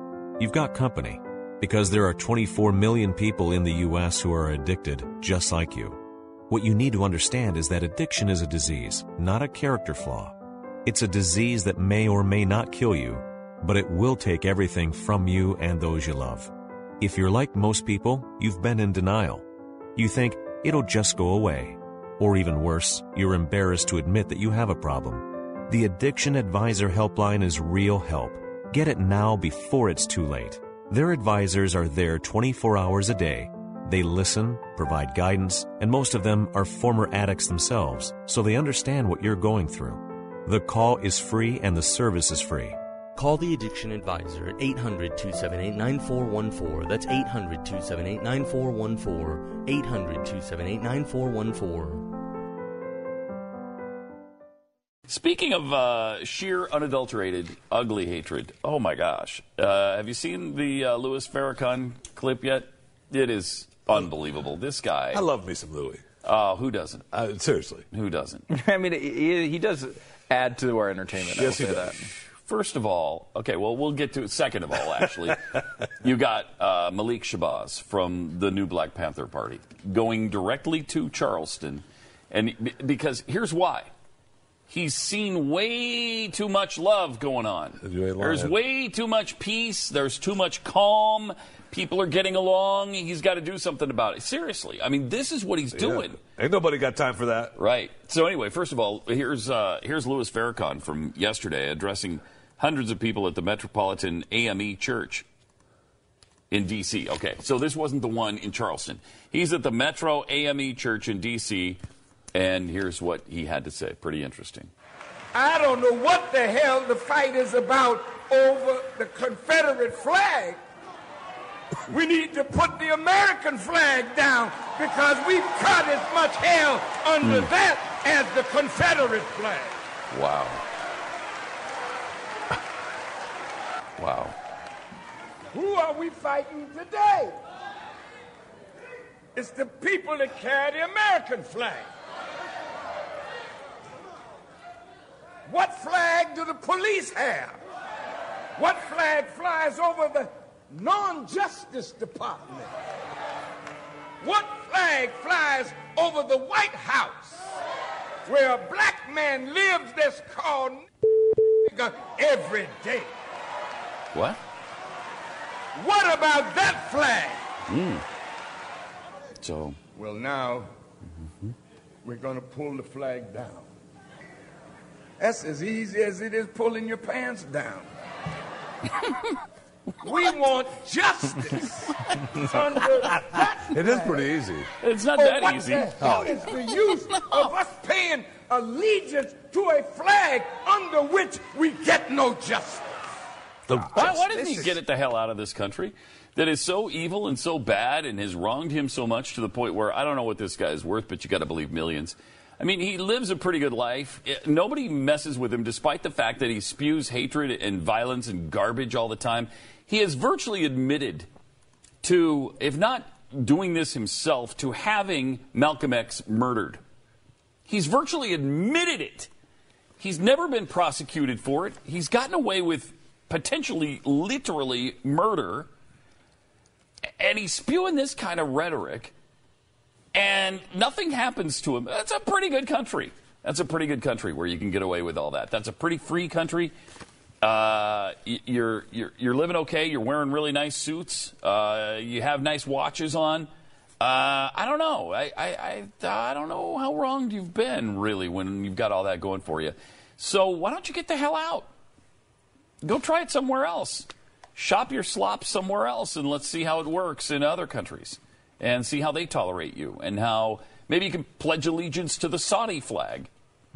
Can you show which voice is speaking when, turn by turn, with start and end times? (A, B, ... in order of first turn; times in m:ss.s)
0:00.4-0:06.0 A
0:06.5-0:19.4 A
0:20.0-0:42.8 A
0:43.2-0:52.0 B
0:55.1-1:05.2 C
1:05.1-1:06.0 D
1:06.2-1:07.1 C
1:07.1-1:07.8 D
1:07.9-1:08.4 C
1:08.5-1:11.9 E
1:11.1-1:11.9 D
1:12.2-1:15.4 C
1:16.0-1:23.9 C
1:24.7-1:36.2 C
1:27.8-1:28.5 D
1:35.7-1:37.5 D
1:37.6-1:45.3 C
1:46.5-1:51.8 C
1:52.3-1:54.7 C
1:55.3-2:00.6 F
2:01.9-2:09.7 F
2:07.2-2:07.5 C
2:10.1-2:10.6 C
2:14.0-2:14.4 C
2:15.5-2:17.3 F
2:19.4-2:21.9 F
2:25.5-2:27.6 F
2:28.6-2:32.7 F
2:34.2-2:37.4 F
2:38.3-2:40.8 F
2:41.6-2:43.1 F
2:44.1-2:44.4 C
2:45.8-2:47.4 F
2:47.7-2:48.0 C
2:49.4-2:49.8 C
2:50.0-2:50.7 F
2:52.0-2:53.7 F
2:55.2-2:57.9 F
3:00.0-3:01.8 F
3:02.3-3:04.2 F
3:03.2-3:04.7 D
3:04.8-3:07.6 C
3:05.2-3:12.8 F
3:06.0-3:06.3 D
3:13.7-3:14.3 D
3:13.9-3:31.3 C
3:14.4-3:14.7 F
3:32.0-3:36.8 C
3:37.7-3:39.3 C
3:40.0-3:45.7 C
3:47.2-3:49.1 C
3:50.1-3:56.7 C
3:57.4-4:03.5 C
4:04.0-4:11.7 C
4:12.8-4:23.3 C